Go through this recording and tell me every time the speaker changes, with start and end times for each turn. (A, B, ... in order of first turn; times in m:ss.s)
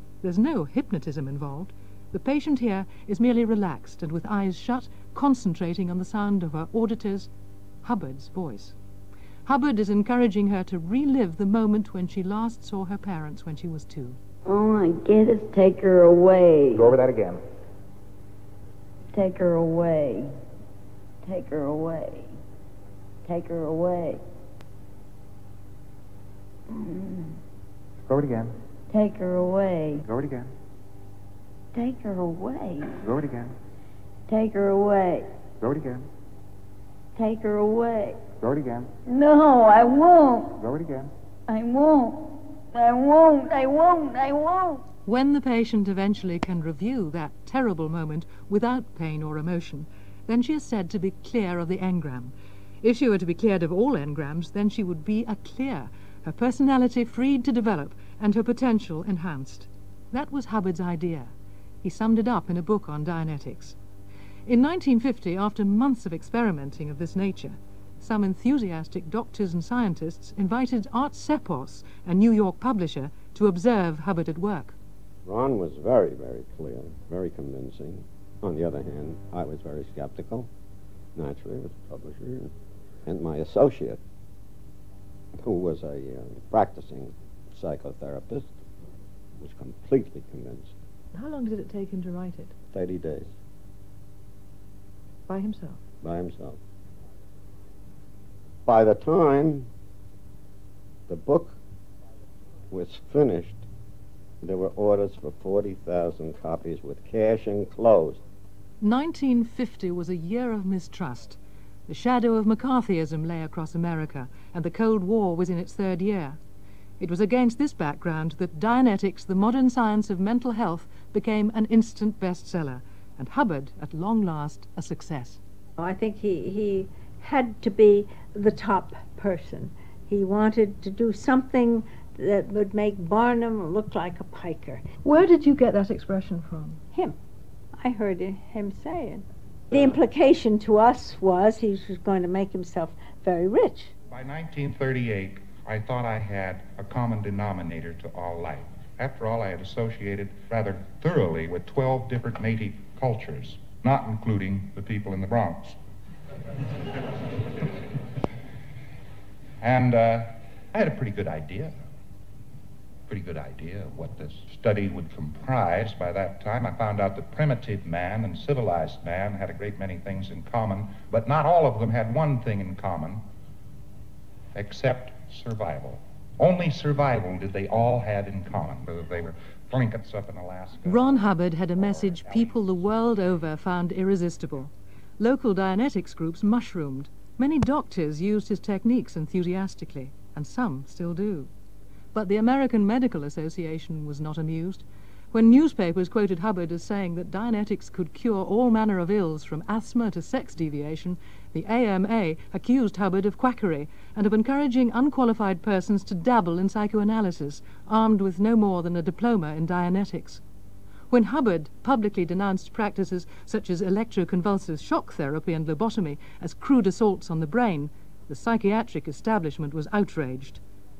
0:00.2-0:07.3 A
0:07.8-0:08.8 A
0:09.4-0:14.2 A
0:14.5-0:16.9 B
0:16.8-0:17.4 C
0:19.1-0:20.3 B
0:21.2-0:22.3 B
0:23.2-0:24.2 B
0:26.7-0:27.4 B
0:28.0-0:28.5 C
0:28.9-0:30.0 B
0:30.0-0:30.5 C
0:31.7-0:33.0 B
0:33.0-0:33.5 C
0:34.3-0:35.3 B
0:35.6-0:36.1 C
0:37.2-0:38.2 B
0:38.4-0:38.9 C
0:39.0-0:40.6 B
0:40.6-0:41.1 C
0:41.5-0:44.8 B
0:45.0-1:01.3 A
1:01.8-1:03.8 A
1:04.4-1:14.8 A
1:15.2-1:20.5 D
1:21.1-1:22.5 D
1:23.0-1:24.0 D
1:25.4-1:28.6 D
1:29.4-1:30.7 D
1:32.7-1:33.3 D
1:36.0-1:36.6 D
1:38.6-1:39.7 D
1:41.1-1:41.6 D
1:42.7-1:43.6 D
1:44.4-1:48.2 D
1:48.8-1:56.4 A
1:57.0-2:05.4 A
2:05.8-2:14.8 E
2:17.8-2:23.9 E
2:24.1-2:35.8 F
2:39.6-2:41.8 F
2:43.1-2:53.2 F
2:54.5-3:02.6 F
3:00.8-3:11.5 A
3:12.1-3:30.4 A
3:31.1-3:40.6 A